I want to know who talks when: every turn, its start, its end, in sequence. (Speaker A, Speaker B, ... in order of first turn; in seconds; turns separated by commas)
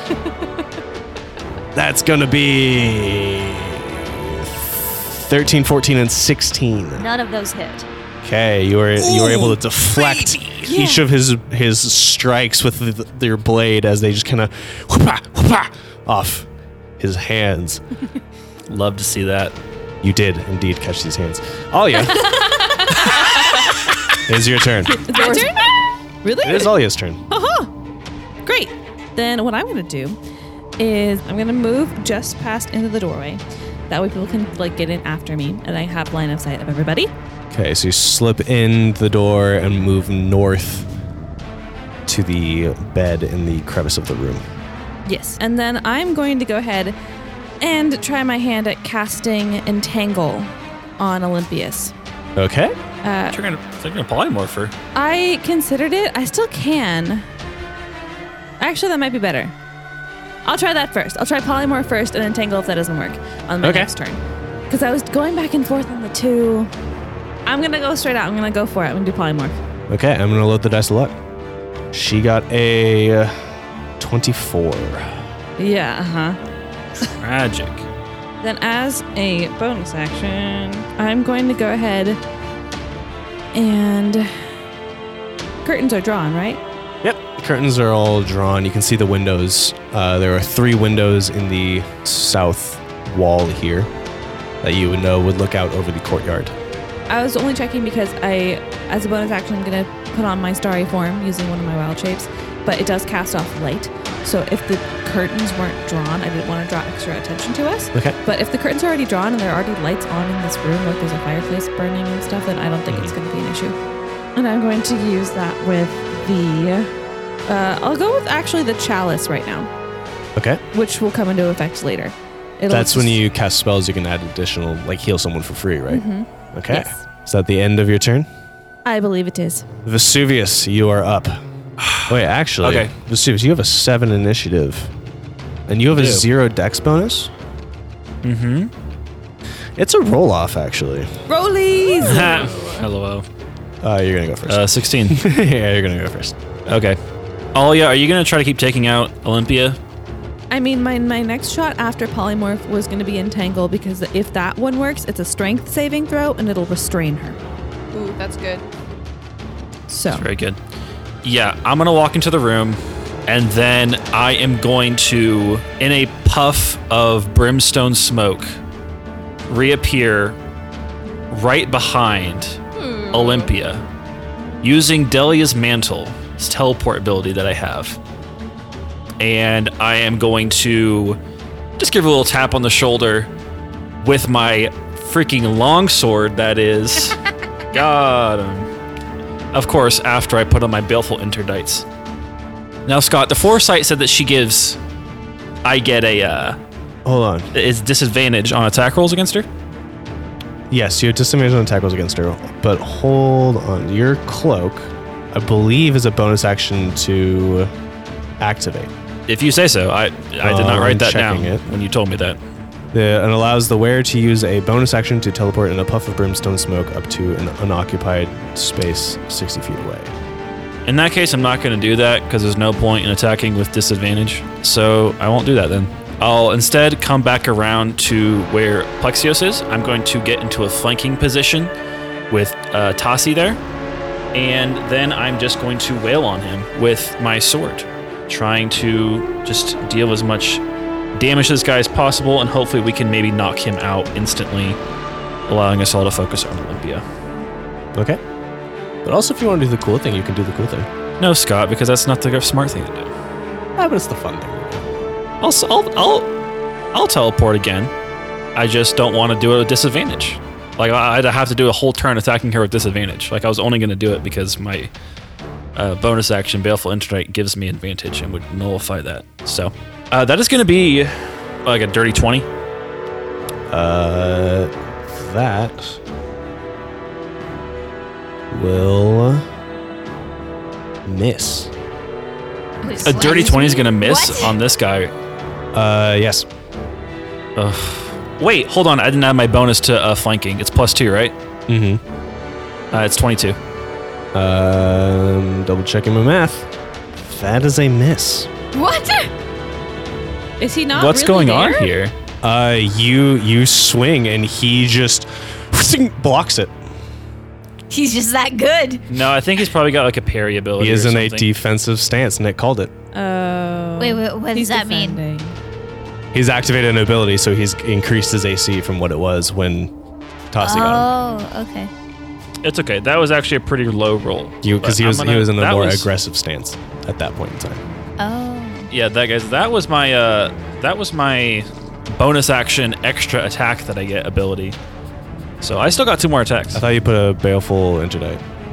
Speaker A: 1.7-7.0, Speaker B: 7.0-7.8, Speaker A: 8.2-16.5, Speaker C: 9.0-10.6, Speaker D: 10.6-11.1, Speaker A: 17.0-17.8, Speaker C: 18.7-19.5, Speaker A: 20.0-22.3, Speaker A: 24.2-25.0, Speaker D: 24.9-25.7, Speaker B: 25.1-25.7, Speaker D: 26.2-26.8, Speaker A: 26.4-27.2, Speaker D: 27.3-27.7, Speaker D: 28.4-30.2, Speaker D: 30.8-37.1, Speaker A: 37.5-40.9, Speaker A: 42.1-44.4, Speaker D: 45.1-46.9, Speaker B: 45.1-45.3, Speaker D: 47.6-51.9, Speaker A: 52.4-52.8, Speaker D: 53.0-53.4, Speaker C: 53.3-54.7, Speaker D: 54.9-57.2, Speaker D: 58.6-59.5, Speaker D: 60.4-66.7, Speaker A: 63.6-63.9, Speaker D: 67.5-69.6, Speaker A: 69.9-71.1, Speaker A: 71.9-73.4, Speaker A: 74.0-75.1, Speaker D: 75.6-76.4, Speaker C: 77.2-77.8, Speaker D: 78.4-82.2, Speaker D: 83.5-84.3, Speaker D: 85.6-86.6, Speaker A: 87.0-93.9, Speaker A: 94.6-96.5, Speaker D: 97.1-113.8, Speaker A: 112.9-113.1, Speaker D: 114.3-116.9, Speaker D: 117.5-119.7, Speaker A: 120.3-120.6, Speaker D: 120.7-123.2, Speaker A: 122.7-128.3, Speaker D: 125.9-127.0, Speaker D: 128.8-129.7, Speaker A: 129.8-131.4, Speaker C: 131.8-132.9, Speaker A: 132.1-134.9, Speaker A: 135.7-137.3, Speaker C: 135.9-136.2, Speaker C: 138.2-138.7, Speaker A: 139.8-141.1, Speaker D: 141.3-142.6, Speaker C: 142.0-143.2, Speaker A: 143.8-146.4, Speaker C: 144.5-145.2, Speaker C: 146.7-147.0, Speaker C: 147.5-149.8, Speaker D: 150.5-157.4, Speaker B: 157.9-158.6, Speaker D: 159.9-160.2, Speaker C: 160.1-160.6, Speaker C: 161.2-168.6, Speaker C: 169.5-170.4, Speaker C: 171.3-173.8, Speaker B: 172.8-173.5, Speaker C: 174.6-178.0, Speaker C: 179.2-181.2, Speaker C: 181.8-183.3, Speaker C: 184.0-187.2, Speaker C: 187.7-188.7, Speaker C: 189.5-191.8, Speaker C: 192.8-194.8, Speaker C: 195.6-196.6, Speaker A: 197.1-197.5, Speaker C: 197.5-199.5, Speaker A: 200.7-207.7, Speaker A: 208.4-208.9, Speaker C: 209.3-212.4, Speaker A: 210.4-211.6, Speaker A: 212.9-220.1, Speaker C: 220.8-231.7, Speaker C: 232.3-233.6, Speaker C: 234.3-240.6, Speaker C: 241.1-244.8, Speaker C: 245.5-247.0, Speaker A: 247.9-248.2, Speaker A: 249.0-250.9, Speaker C: 251.2-253.1, Speaker A: 253.8-254.8, Speaker C: 255.4-256.3, Speaker C: 256.9-257.9, Speaker C: 258.5-264.9, Speaker C: 265.7-272.5, Speaker A: 273.7-276.0, Speaker A: 278.5-279.4, Speaker A: 281.0-281.7, Speaker E: 282.8-284.6, Speaker C: 283.0-285.1, Speaker A: 285.7-286.4, Speaker C: 287.6-291.4, Speaker A: 291.7-292.0, Speaker C: 292.9-293.6, Speaker A: 294.3-298.5, Speaker E: 298.7-299.3, Speaker D: 300.6-301.9, Speaker C: 300.9-302.1, Speaker A: 302.4-306.7, Speaker E: 307.9-309.0, Speaker C: 309.1-311.5, Speaker A: 310.8-312.9, Speaker D: 313.1-315.6, Speaker E: 314.0-315.2, Speaker A: 316.3-319.9, Speaker A: 320.5-321.1, Speaker E: 320.6-321.9, Speaker C: 322.6-326.1, Speaker A: 324.6-327.8, Speaker E: 328.2-328.9, Speaker C: 328.9-334.8, Speaker C: 335.6-336.8, Speaker A: 336.7-338.4